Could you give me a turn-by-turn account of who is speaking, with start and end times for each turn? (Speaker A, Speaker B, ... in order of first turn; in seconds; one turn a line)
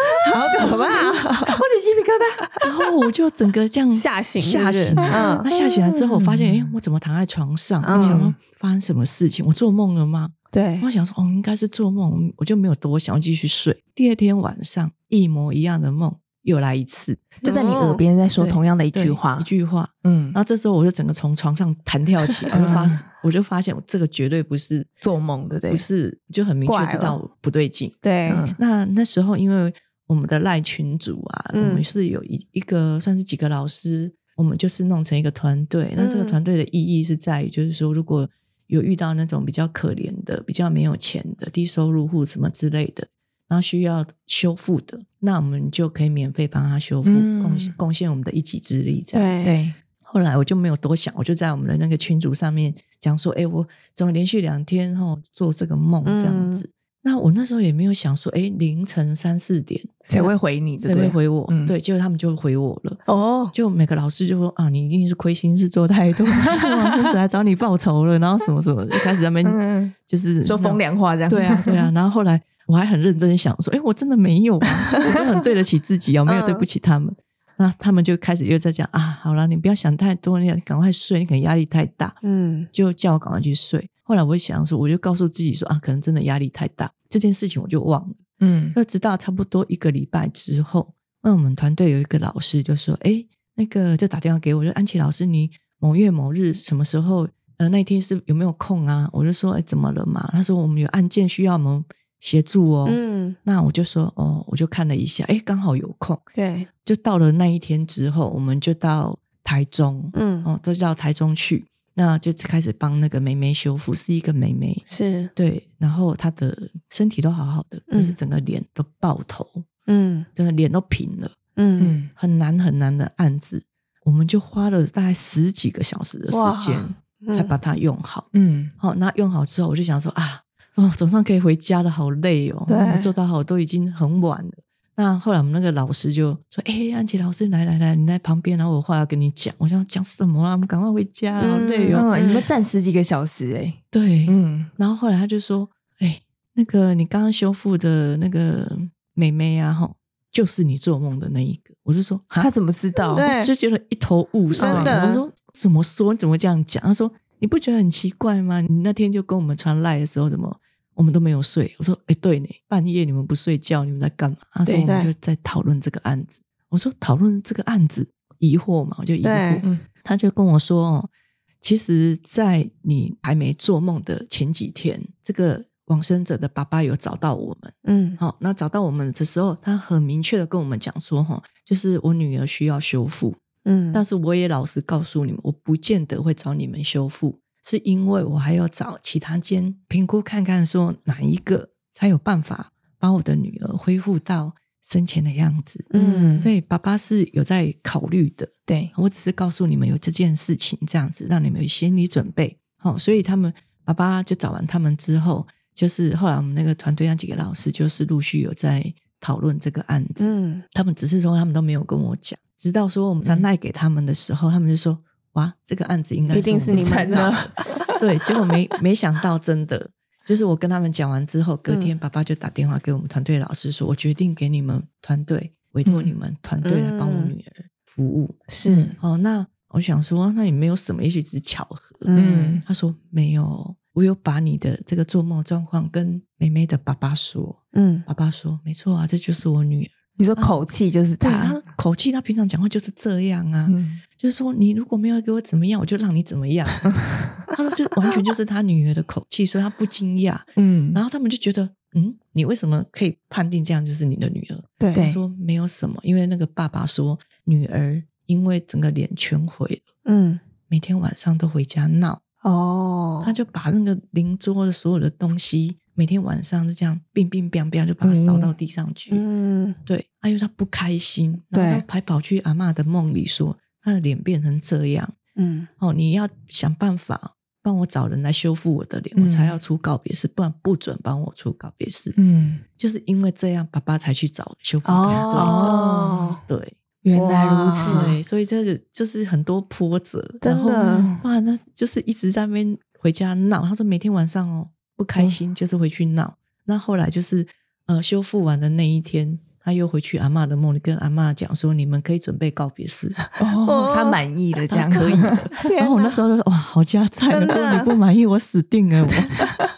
Speaker A: 0.1-1.6
Speaker B: 0.2-2.5
Speaker C: 2.6-17.4
Speaker A: 3.9-5.5
Speaker B: 5.0-6.7
Speaker A: 7.8-8.3
Speaker B: 7.9-8.4
Speaker A: 10.5-10.9
Speaker B: 17.4-19.5
Speaker A: 17.4-18.0
Speaker C: 18.4-24.9
Speaker B: 20.0-20.4
Speaker B: 22.5-23.0
Speaker B: 25.0-25.8
Speaker C: 25.7-49.5
Speaker A: 26.6-27.2
Speaker A: 28.0-28.4
Speaker B: 28.3-28.6
Speaker A: 31.5-31.8
Speaker A: 36.0-36.4
Speaker B: 47.0-47.7
Speaker A: 49.1-49.5
Speaker B: 49.4-49.8
Speaker C: 50.0-60.1
Speaker A: 56.0-56.6
Speaker B: 60.0-61.7
Speaker C: 60.8-63.0
Speaker A: 63.1-63.5
Speaker C: 63.5-82.2
Speaker B: 69.4-71.9
Speaker A: 76.2-76.7
Speaker A: 82.2-82.7
Speaker C: 82.7-88.2
Speaker B: 88.4-88.8
Speaker C: 88.7-106.2
Speaker A: 102.8-103.4
Speaker A: 106.3-106.7
Speaker C: 106.8-114.8
Speaker A: 110.1-110.5
Speaker A: 114.9-115.3
Speaker C: 115.3-119.7
Speaker A: 117.9-118.2
Speaker A: 119.9-120.3
Speaker C: 120.3-121.3
Speaker A: 121.5-122.0
Speaker B: 121.8-122.1
Speaker C: 122.1-142.1
Speaker A: 126.3-127.5
Speaker B: 128.3-128.7
Speaker A: 132.7-133.1
Speaker A: 141.4-142.5
Speaker B: 141.9-144.7
Speaker C: 143.9-152.5
Speaker B: 152.4-153.3
Speaker A: 153.1-153.5
Speaker C: 153.2-171.1
Speaker B: 154.6-155.1
Speaker A: 154.6-155.2
Speaker A: 164.7-165.1
Speaker A: 169.2-169.6
Speaker C: 171.6-183.4
Speaker A: 177.8-178.2
Speaker A: 183.6-184.0
Speaker C: 183.9-195.9
Speaker A: 195.9-196.5
Speaker B: 195.9-196.5
Speaker C: 196.4-228.4
Speaker B: 198.7-198.9
Speaker A: 210.2-210.6
Speaker A: 216.3-217.5
Speaker B: 216.3-218.0
Speaker A: 221.7-221.9
Speaker B: 225.8-226.1
Speaker A: 226.6-227.3
Speaker A: 228.5-228.9
Speaker B: 228.7-228.9
Speaker C: 229.0-240.7
Speaker A: 232.0-232.6
Speaker B: 232.1-232.6
Speaker A: 237.7-238.1
Speaker B: 240.2-241.6
Speaker C: 241.2-259.9
Speaker B: 243.7-244.0
Speaker B: 246.9-247.3
Speaker B: 250.6-251.0
Speaker A: 254.8-255.2
Speaker A: 260.0-260.4
Speaker C: 260.7-262.2
Speaker A: 262.4-263.3
Speaker C: 263.2-269.2
Speaker B: 268.0-268.5
Speaker A: 269.1-269.8
Speaker C: 269.9-275.1
Speaker A: 271.5-271.8
Speaker A: 275.4-275.7
Speaker C: 275.8-282.2
Speaker B: 279.1-279.6
Speaker B: 282.1-282.6
Speaker C: 282.8-285.7
Speaker A: 284.8-286.4
Speaker B: 285.3-286.4
Speaker C: 286.5-286.8
Speaker B: 287.0-288.1
Speaker A: 287.1-288.1
Speaker C: 287.8-303.2
Speaker A: 290.4-291.1
Speaker B: 290.9-291.2
Speaker B: 303.4-305.5
Speaker A: 303.5-304.2
Speaker C: 304.7-309.5
Speaker A: 305.6-306.2
Speaker A: 307.3-308.0